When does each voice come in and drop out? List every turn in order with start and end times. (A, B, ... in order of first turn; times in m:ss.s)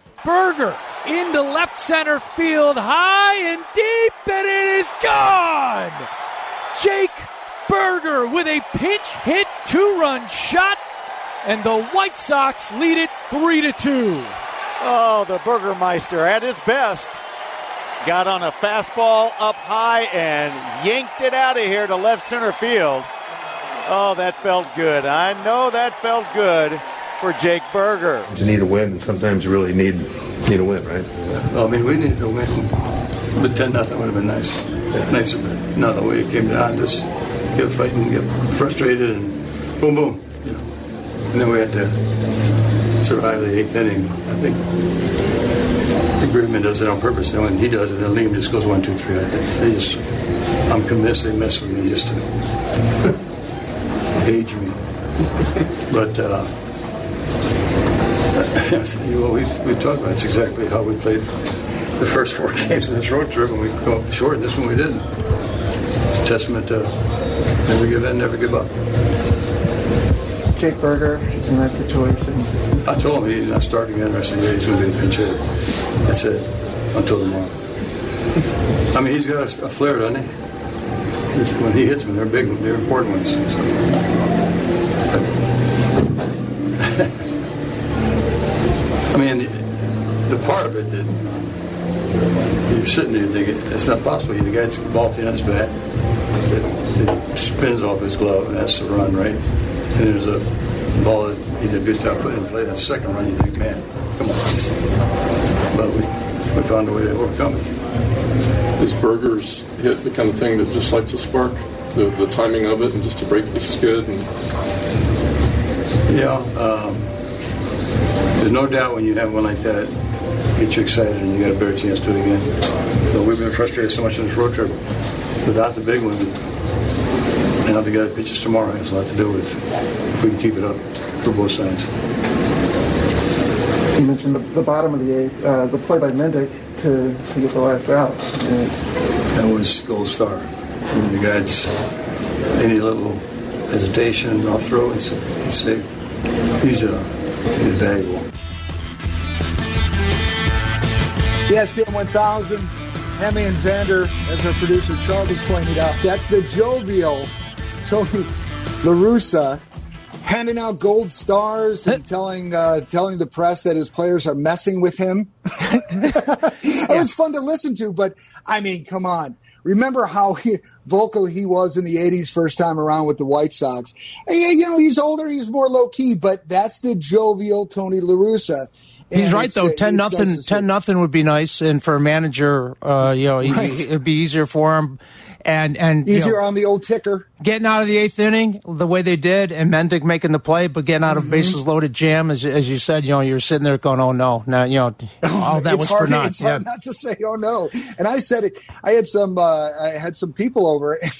0:00.2-0:06.1 A
0:06.8-0:10.8 A
0:11.4-0:14.4 A
0:14.8-0:17.2 B
0:18.0-0:23.1 B
0:23.9-0:28.3 B
0:28.3-0:31.1 C
0:31.3-0:40.8 D
0:41.3-0:42.2 D
0:43.0-0:44.8 D
0:46.2-0:52.4 D
0:54.2-0:54.9 D
0:55.9-0:56.6 D
0:58.4-1:05.2 D
1:06.1-1:08.7 D
1:10.5-1:12.8 E
1:12.8-1:17.6 D
1:18.9-1:20.3 D
1:21.3-1:23.9 D
1:26.8-1:27.1 D
1:29.1-1:31.5 D
1:32.7-1:35.8 D
1:36.4-1:45.0 D
1:45.7-1:47.8 D
1:48.8-1:54.3 F
1:56.1-1:57.2 D
1:58.4-2:04.8 D
2:05.4-2:06.5 D
2:07.6-2:11.9 D
2:14.0-2:18.7 E
2:19.3-2:21.9 D
2:22.5-2:25.9 D
2:26.6-2:28.3 D
2:31.5-2:39.6 G
2:40.2-3:00.7 G
2:59.2-3:06.4 H
3:03.4-3:03.8 G
3:06.0-3:07.3 G
3:07.4-3:16.6 H
3:11.1-3:11.6 G
3:15.2-3:21.1 G